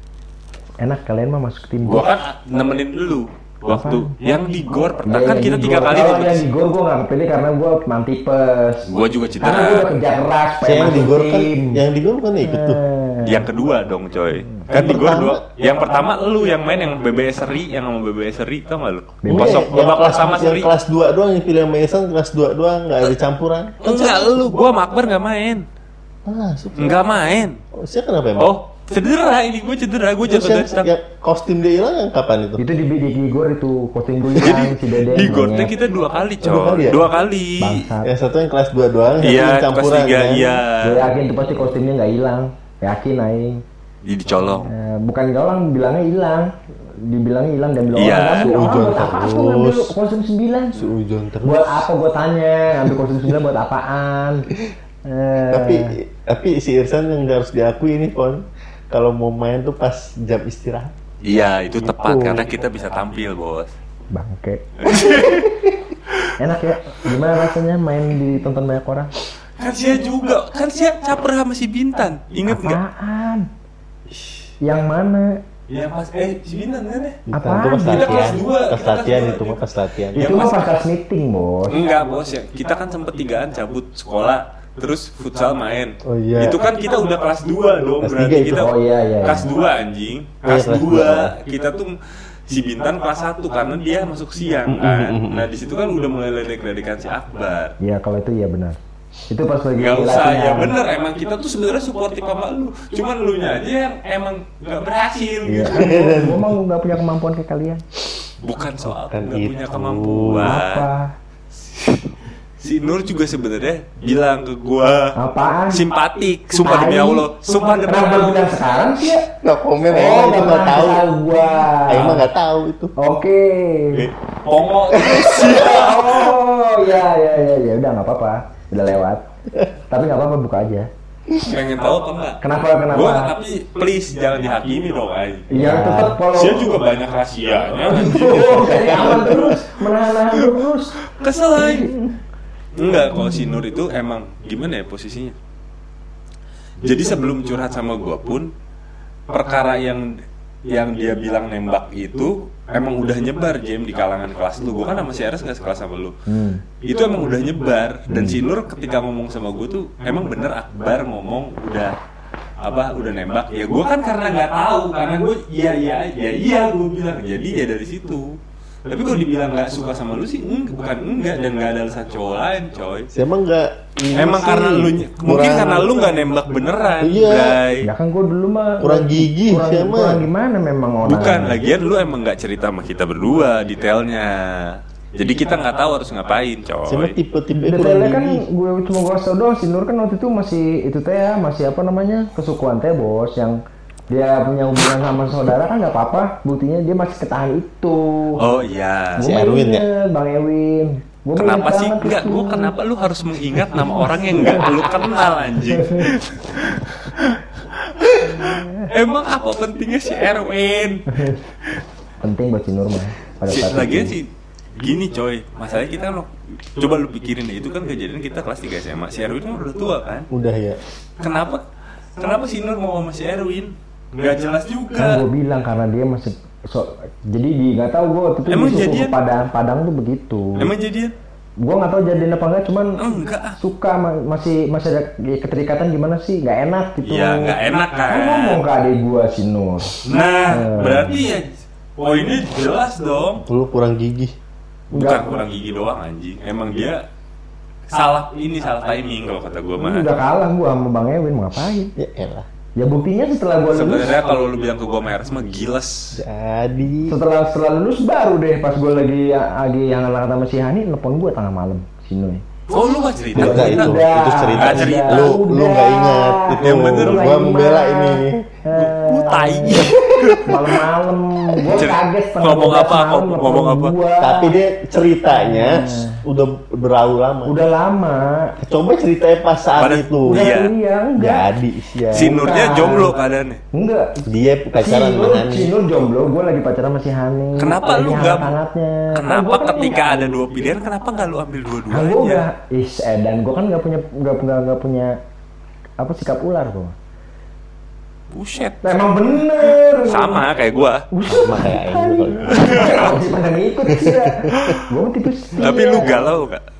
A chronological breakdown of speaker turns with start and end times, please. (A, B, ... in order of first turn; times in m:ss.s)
0:00.8-0:02.1 A
0:01.8-0:06.4 B
0:03.7-0:04.1 A
0:05.0-0:11.8 A
0:08.8-0:09.9 B
0:10.6-0:12.8 C
0:12.4-0:13.4 A
0:13.2-0:20.7 B
0:14.7-0:15.4 C
0:19.2-0:19.7 A
0:19.3-0:24.3 C
0:23.8-0:25.6 B
0:26.2-0:27.0 C
0:26.8-0:27.6 B
0:27.7-0:28.5 C
0:28.4-0:30.9 B
0:30.2-0:32.6 C
0:32.6-0:35.7 A
0:34.4-0:37.9 B
0:36.4-0:37.1 C
0:37.6-0:38.1 A
0:38.0-0:40.6 C
0:39.2-0:41.1 B
0:40.8-0:43.6 A
0:44.0-0:44.7 B
0:44.6-0:50.8 A
0:47.9-0:48.5 B
0:48.4-0:49.9 C
0:50.7-0:51.8 C
0:51.4-0:54.5 A
0:55.0-0:56.0 A
0:55.5-1:00.9 C
1:01.2-1:03.7 B
1:01.8-1:02.5 C
1:04.1-1:04.7 A
1:04.8-1:05.6 B
1:06.4-1:09.1 A
1:09.6-1:12.8 B
1:12.5-1:13.5 A
1:14.6-1:15.4 A
1:15.7-1:17.2 B
1:17.3-1:20.4 C
1:17.3-1:18.4 A
1:17.9-1:19.6 B
1:20.1-1:20.8 B
1:20.1-1:21.8 A
1:21.7-1:32.0 B
1:26.0-1:26.6 C
1:28.0-1:28.7 C
1:28.5-1:29.5 A
1:30.4-1:31.3 C
1:32.5-1:37.8 B
1:34.7-1:35.5 C
1:37.8-1:38.8 A
1:39.3-1:40.7 A
1:39.8-1:45.9 B
1:45.4-1:47.8 A
1:45.6-1:46.5 C
1:48.4-1:50.9 B
1:49.1-1:50.6 C
1:50.4-1:51.1 A
1:51.5-1:52.1 B
1:52.6-1:55.1 B
1:55.2-1:55.8 A
1:55.7-1:58.8 B
1:56.6-1:57.3 A
1:57.9-1:59.3 A
1:59.4-2:01.1 C
1:59.9-2:02.2 A
2:01.9-2:02.9 C
2:03.0-2:04.1 A
2:03.9-2:06.4 B
2:04.9-2:05.5 C
2:05.3-2:09.2 A
2:09.9-2:10.9 A
2:11.4-2:19.5 B
2:12.4-2:13.3 A
2:15.5-2:16.7 A
2:17.9-2:20.9 A
2:18.9-2:19.5 C
2:21.1-2:21.9 B
2:21.6-2:22.2 A
2:22.8-2:25.4 B
2:26.8-2:28.5 B
2:29.3-2:30.1 B
2:30.7-2:36.1 B
2:36.3-2:36.6 A
2:36.8-2:41.9 B
2:38.1-2:38.4 A
2:42.6-2:53.1 B
2:53.1-2:56.1 C
2:54.1-2:57.9 B
2:57.0-2:57.6 C
2:57.8-3:01.6 A
2:58.8-3:00.2 C
3:01.0-3:07.1 B
3:06.9-3:08.4 C
3:07.6-3:18.4 A
3:18.4-3:19.3 B
3:19.2-3:19.9 C
3:19.2-3:22.7 A
3:21.4-3:31.3 B
3:24.4-3:24.6 A
3:25.8-3:26.1 A
3:28.3-3:28.9 A
3:31.1-3:31.4 A
3:32.2-3:34.2 A
3:33.5-3:40.3 B
3:40.3-3:40.8 C
3:41.2-3:41.6 B
3:42.2-3:45.2 B
3:45.0-3:50.7 A
3:48.5-3:49.1 B
3:50.6-3:51.1 B
3:51.6-3:53.1 A
3:53.0-3:53.6 B
3:53.6-3:57.5 A
3:57.0-3:58.6 B
3:58.0-4:01.2 A
4:00.0-4:03.4 B
4:03.5-4:04.3 C
4:04.9-4:07.0 B
4:04.9-4:05.4 A
4:07.9-4:10.1 B
4:09.8-4:11.9 A
4:12.0-4:12.5 C
4:12.8-4:14.1 A
4:13.7-4:16.2 B
4:16.1-4:17.2 C
4:17.1-4:22.4 A
4:22.7-4:24.0 B
4:23.3-4:28.4 C
4:23.3-4:34.5 A
4:24.6-4:25.3 B
4:26.6-4:27.3 B
4:28.7-4:30.8 B
4:29.9-4:30.4 C
4:31.7-4:34.0 B
4:34.2-4:37.5 C
4:35.3-4:36.2 A
4:37.4-4:38.5 A
4:38.6-4:40.5 C
4:39.8-4:40.7 B
4:40.2-4:41.4 A
4:41.2-4:42.4 C
4:42.1-4:43.6 B
4:42.1-4:43.1 A
4:43.7-4:44.2 A
4:44.2-4:45.7 C
4:44.8-4:50.3 A
4:47.6-4:48.5 B
4:49.1-4:52.4 B
4:51.9-4:55.2 A
4:56.0-4:56.9 A
4:58.3-5:01.1 B
4:58.8-5:00.4 A
5:01.1-5:06.3 A
5:01.3-5:02.9 C
5:02.5-5:03.2 B
5:03.9-5:04.7 C
5:04.6-5:04.8 B
5:05.5-5:06.6 B